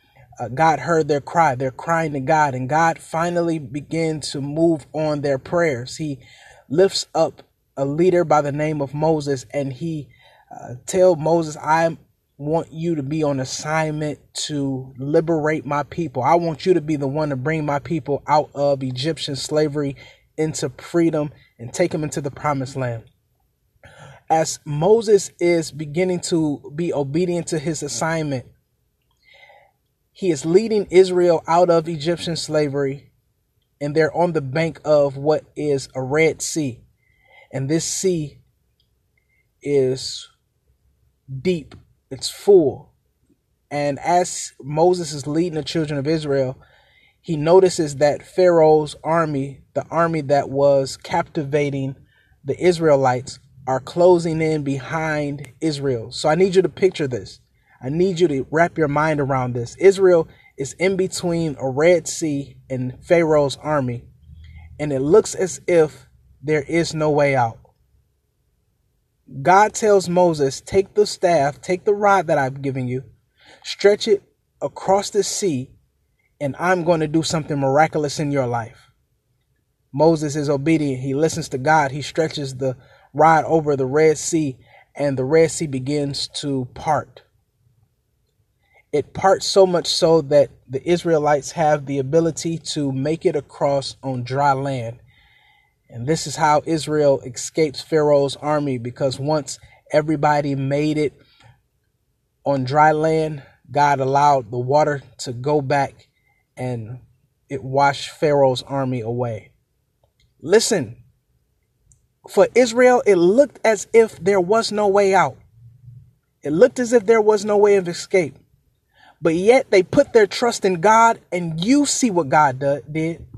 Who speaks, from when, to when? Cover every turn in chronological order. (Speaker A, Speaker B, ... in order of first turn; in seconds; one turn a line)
Speaker A: 0.4-23.1
Speaker A: 24.3-28.5
Speaker A: 30.1-33.1
Speaker A: 33.8-36.8
Speaker A: 37.5-38.4
Speaker A: 39.6-40.3
Speaker A: 41.4-42.9
Speaker A: 43.7-46.6
Speaker A: 47.2-64.1
Speaker A: 64.8-67.6
Speaker A: 69.4-73.1
Speaker A: 73.6-75.7
Speaker A: 76.4-78.9
Speaker A: 79.9-87.2
Speaker A: 88.9-95.0
Speaker A: 95.9-101.2
Speaker A: 102.5-109.5
Speaker A: 110.4-111.0
Speaker A: 112.3-115.4
Speaker A: 116.4-118.4
Speaker A: 119.2-123.2